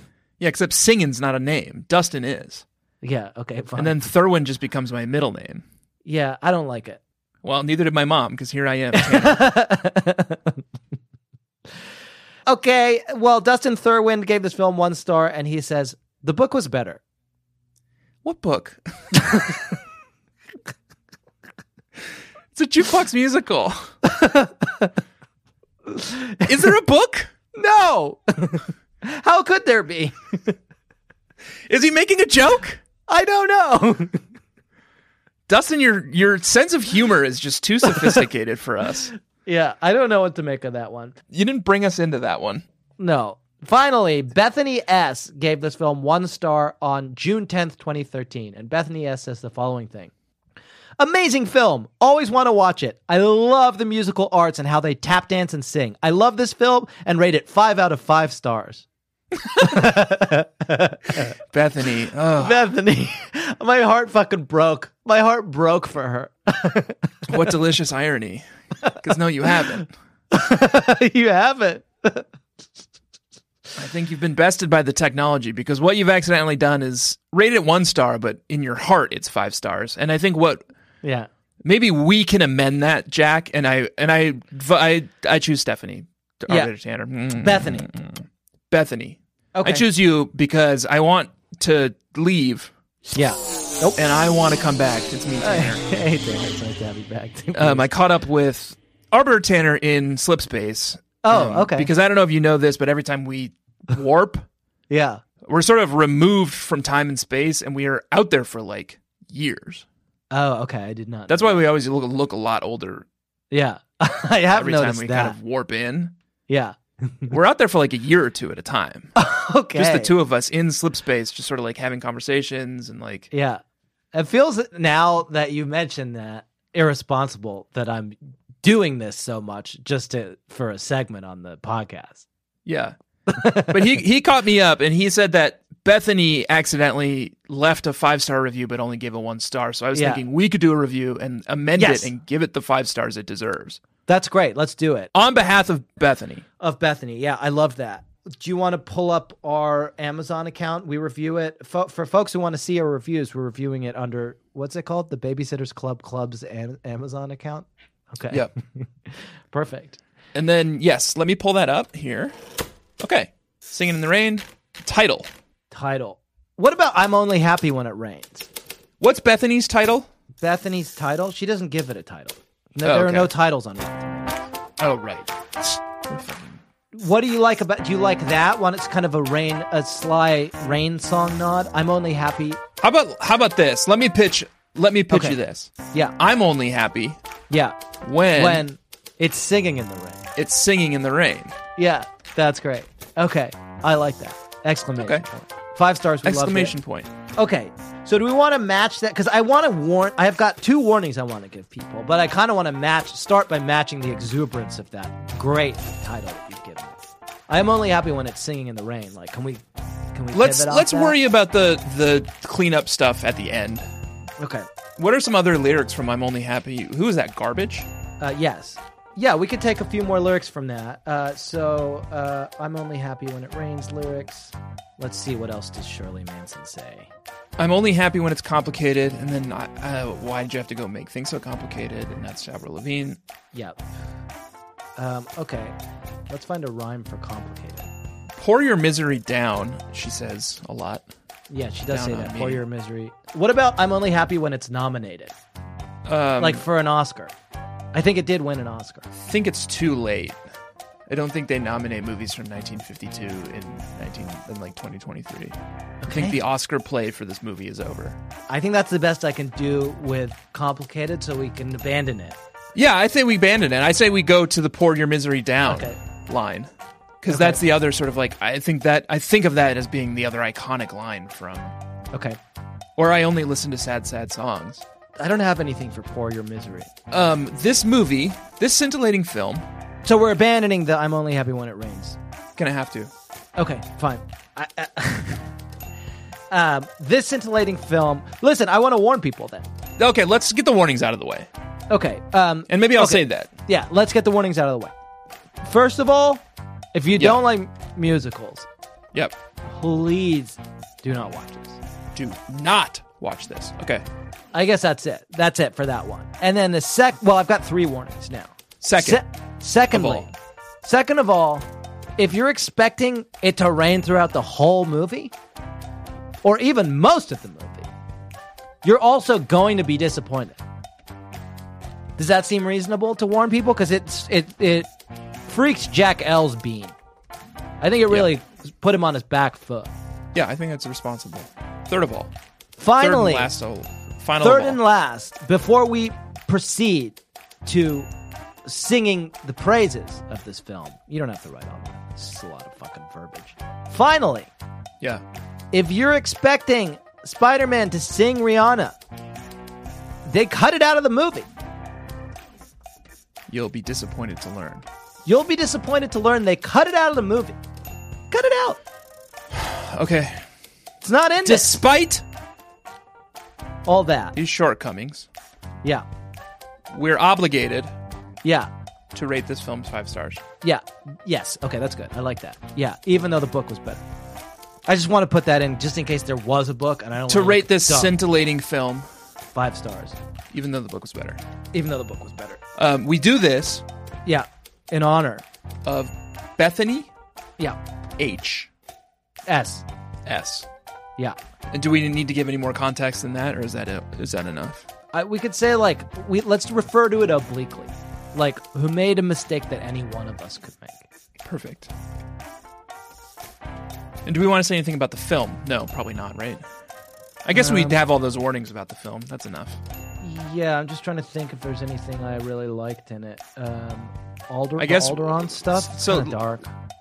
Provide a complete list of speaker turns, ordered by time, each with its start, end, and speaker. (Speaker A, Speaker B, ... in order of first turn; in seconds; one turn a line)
Speaker A: 0.4-2.6
Speaker B: 3.0-4.0
Speaker A: 3.8-5.7
Speaker B: 6.0-7.0
Speaker A: 7.4-9.5
Speaker B: 8.9-10.6
Speaker B: 12.5-17.0
Speaker A: 18.2-19.4
Speaker B: 19.2-19.6
Speaker A: 22.5-23.9
Speaker B: 24.0-24.9
Speaker B: 25.9-26.6
Speaker A: 26.4-27.3
Speaker B: 27.6-30.6
Speaker A: 31.7-32.8
Speaker B: 33.1-34.2
Speaker A: 35.5-39.1
Speaker B: 37.9-38.2
Speaker B: 39.5-41.1
Speaker A: 41.3-42.6
Speaker B: 43.0-50.1
Speaker B: 51.0-58.9
Speaker B: 59.5-61.4
Speaker A: 61.5-62.6
Speaker B: 62.4-67.1
Speaker A: 67.3-68.5
Speaker A: 69.0-69.9
Speaker B: 70.3-72.2
Speaker A: 73.8-80.7
Speaker B: 81.0-81.3
Speaker A: 81.6-92.7
Speaker B: 87.3-87.9
Speaker B: 89.5-89.9
Speaker B: 93.1-94.0
Speaker A: 94.0-95.8
Speaker B: 95.4-97.9
Speaker A: 97.5-104.5
Speaker B: 101.2-101.9
Speaker B: 104.9-105.2
Speaker A: 105.4-109.9
Speaker B: 110.3-111.6
Speaker A: 111.3-113.1
Speaker B: 113.5-115.4
Speaker A: 114.5-116.1
Speaker B: 116.5-117.3
Speaker A: 117.3-119.1
Speaker B: 119.2-120.1
Speaker A: 119.8-123.3
Speaker B: 123.3-123.6
Speaker B: 124.1-132.2
Speaker A: 132.7-133.0
Speaker B: 133.3-133.8
Speaker A: 133.6-143.8
Speaker B: 139.9-140.2
Speaker B: 141.8-142.1
Speaker B: 144.1-145.1
Speaker A: 145.1-146.4
Speaker B: 146.6-160.0
Speaker A: 160.3-162.4
Speaker A: 163.0-165.3
Speaker B: 165.7-168.5
Speaker A: 169.0-170.1
Speaker B: 170.4-174.4
Speaker A: 172.8-173.3
Speaker A: 174.8-176.6
Speaker B: 176.9-182.6
Speaker A: 182.8-187.2
Speaker B: 185.1-185.4
Speaker B: 187.5-187.8
Speaker A: 188.0-188.7
Speaker B: 188.3-190.3
Speaker A: 190.4-191.6
Speaker B: 191.8-196.8
Speaker A: 195.0-195.2
Speaker A: 196.2-197.1
Speaker B: 197.3-207.0
Speaker B: 207.5-209.6
Speaker B: 210.1-211.2
Speaker A: 210.3-213.9
Speaker B: 214.4-214.7
Speaker A: 215.0-217.9
Speaker B: 218.2-227.1
Speaker A: 227.6-233.2
Speaker B: 233.5-233.8
Speaker B: 235.0-235.8
Speaker B: 236.3-237.9
Speaker A: 238.4-241.1
Speaker B: 241.5-245.3
Speaker A: 241.9-242.7
Speaker A: 246.1-246.6
Speaker B: 246.4-247.3
Speaker B: 247.9-249.1
Speaker A: 249.1-250.4
Speaker A: 251.1-258.2
Speaker B: 256.0-256.4
Speaker B: 258.5-262.4
Speaker A: 262.8-266.7
Speaker B: 265.7-266.0
Speaker A: 267.2-271.7
Speaker B: 267.3-267.6
Speaker B: 272.1-272.4
Speaker A: 273.0-274.9
Speaker B: 275.2-276.9
Speaker A: 277.1-279.7
Speaker B: 280.1-282.2
Speaker A: 282.6-283.1
Speaker B: 283.6-285.5
Speaker B: 286.5-289.7
Speaker A: 290.0-291.5
Speaker B: 291.9-294.9
Speaker A: 292.7-293.5
Speaker B: 295.6-296.4
Speaker B: 296.9-298.7
Speaker A: 297.1-297.4
Speaker B: 299.7-301.8
Speaker A: 302.1-304.1
Speaker B: 304.5-311.7
Speaker A: 308.8-309.2
Speaker A: 309.9-310.3
Speaker B: 312.2-315.3
Speaker B: 316.4-317.9
Speaker B: 318.8-320.6
Speaker B: 322.2-324.9
Speaker B: 325.5-326.9
Speaker B: 327.8-329.9
Speaker A: 328.1-328.3
Speaker A: 330.3-332.3
Speaker B: 332.8-333.5
Speaker A: 333.0-334.8
Speaker B: 334.4-338.1
Speaker B: 338.7-344.5
Speaker B: 345.7-349.0
Speaker B: 350.3-351.5
Speaker A: 353.5-354.9
Speaker B: 355.3-357.6
Speaker B: 358.3-358.8
Speaker A: 359.5-360.4
Speaker B: 361.0-361.8
Speaker A: 361.4-362.2
Speaker B: 363.9-364.4
Speaker A: 364.4-365.3
Speaker A: 366.9-367.9
Speaker B: 368.4-368.7
Speaker A: 369.1-370.4
Speaker B: 370.6-374.0
Speaker B: 374.9-378.1
Speaker A: 377.3-379.1
Speaker B: 379.5-380.2
Speaker A: 380.5-381.4
Speaker B: 381.7-382.6
Speaker A: 382.8-383.9
Speaker B: 384.3-385.4
Speaker A: 385.9-387.1
Speaker A: 388.2-388.7
Speaker B: 389.5-389.9
Speaker A: 390.2-390.7
Speaker A: 391.7-394.9
Speaker B: 395.1-401.0
Speaker A: 401.4-401.9
Speaker A: 404.2-406.6
Speaker A: 407.4-409.8
Speaker B: 407.5-408.0
Speaker B: 410.2-416.7
Speaker A: 414.8-416.4